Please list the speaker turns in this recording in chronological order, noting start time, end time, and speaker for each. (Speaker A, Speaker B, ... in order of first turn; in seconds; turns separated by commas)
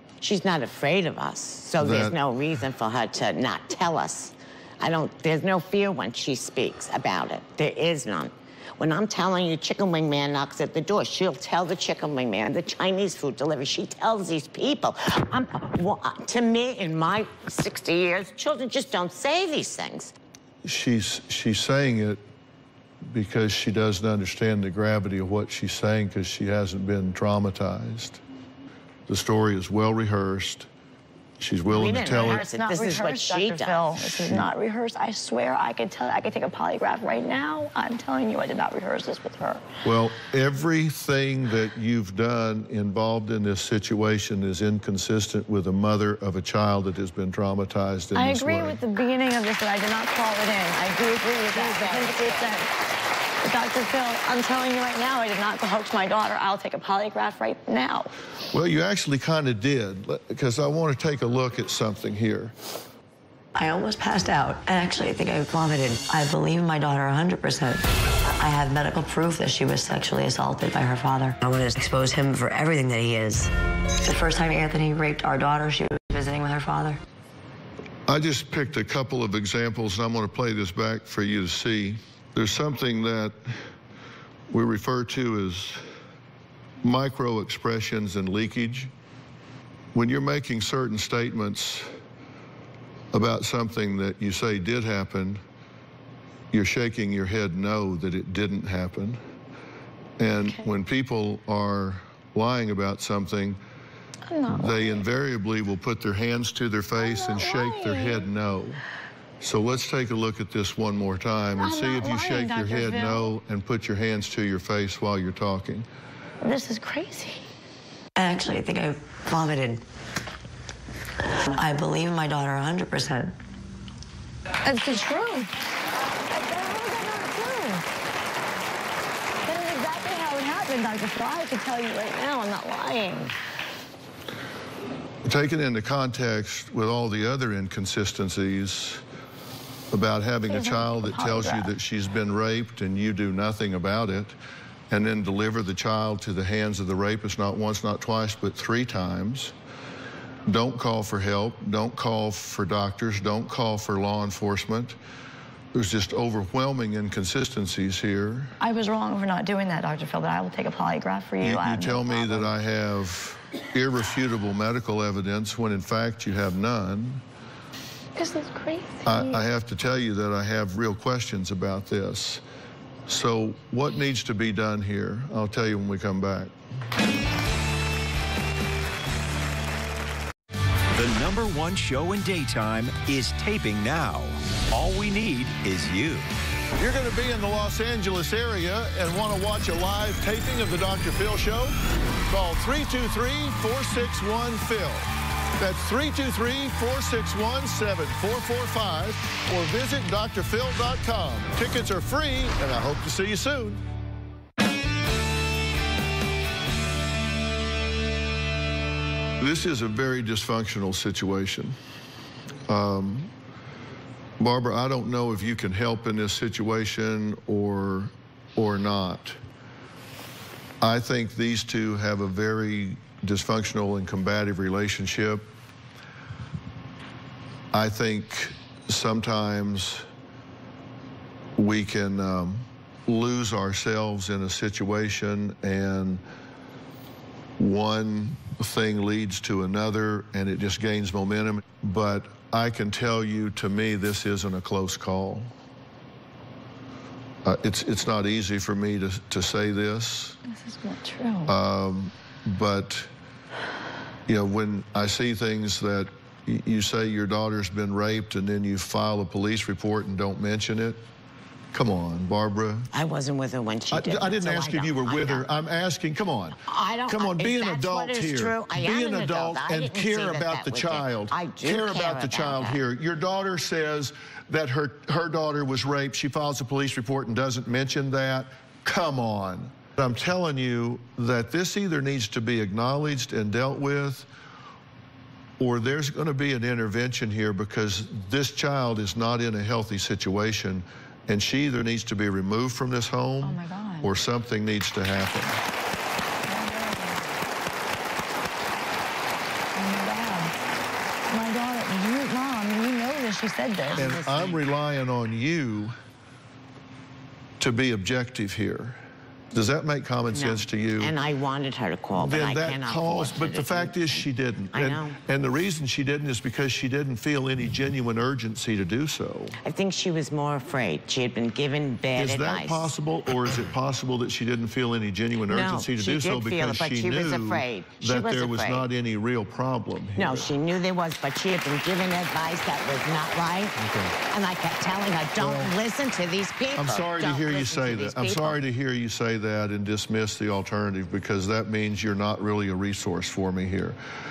Speaker A: 0.2-20.1, Speaker B: 1.8-2.2, Speaker B: 20.6-22.2, Speaker B: 23.1-28.2, Speaker B: 29.1-30.7, Speaker B: 31.4-32.5, Speaker A: 31.7-33.9, Speaker C: 32.0-39.6, Speaker B: 34.0-34.5, Speaker B: 39.8-48.8, Speaker C: 48.1-52.7, Speaker A: 51.5-52.6, Speaker C: 53.4-58.1, Speaker B: 58.5-62.5, Speaker D: 63.5-67.8, Speaker D: 68.4-73.5, Speaker D: 74.0-77.0, Speaker B: 78.1-83.7, Speaker B: 84.5-85.8, Speaker B: 86.8-88.9, Speaker B: 89.9-91.9, Speaker B: 93.1-95.4, Speaker B: 96.5-99.2, Speaker B: 100.2-103.6, Speaker C: 104.3-105.0, Speaker B: 104.5-108.8, Speaker C: 107.0-108.3, Speaker B: 109.4-115.9, Speaker C: 111.6-113.3, Speaker C: 116.4-117.5, Speaker D: 118.2-119.8, Speaker D: 121.5-123.3, Speaker C: 124.6-125.5, Speaker C: 126.3-127.8, Speaker C: 129.4-133.3, Speaker B: 135.2-139.0, Speaker B: 139.9-144.4, Speaker C: 140.5-141.7, Speaker B: 144.9-149.6, Speaker B: 150.5-155.0, Speaker B: 155.7-158.5, Speaker C: 158.6-162.5, Speaker B: 161.4-167.2, Speaker C: 168.2-169.4, Speaker B: 169.1-172.4, Speaker B: 173.1-176.5, Speaker E: 180.9-186.3, Speaker B: 186.8-191.8, Speaker B: 192.3-203.8, Speaker B: 209.4-211.8, Speaker B: 212.7-213.3, Speaker B: 214.4-219.4, Speaker B: 220.8-225.5, Speaker B: 227.7-230.1, Speaker B: 231.6-236.2, Speaker B: 237.6-245.5, Speaker B: 247.4-250.4, Speaker C: 250.5-251.5, Speaker B: 251.5-253.1, Speaker B: 254.3-261.0, Speaker B: 261.7-262.9, Speaker A: 262.9-265.5, Speaker B: 263.9-284.3, Speaker A: 266.6-272.8, Speaker B: 285.6-295.6, Speaker C: 293.4-294.1, Speaker C: 296.5-297.2, Speaker C: 299.7-300.5, Speaker C: 301.3-304.1, Speaker A: 303.9-304.6, Speaker B: 303.9-306.0, Speaker B: 307.6-309.0, Speaker B: 309.5-311.1, Speaker A: 310.3-315.2, Speaker B: 312.2-319.6, Speaker A: 319.6-322.9, Speaker B: 322.1-330.5, Speaker A: 325.5-328.9, Speaker A: 330.2-333.8, Speaker B: 333.8-334.1, Speaker A: 334.3-338.6, Speaker B: 335.4-335.7, Speaker B: 336.8-344.0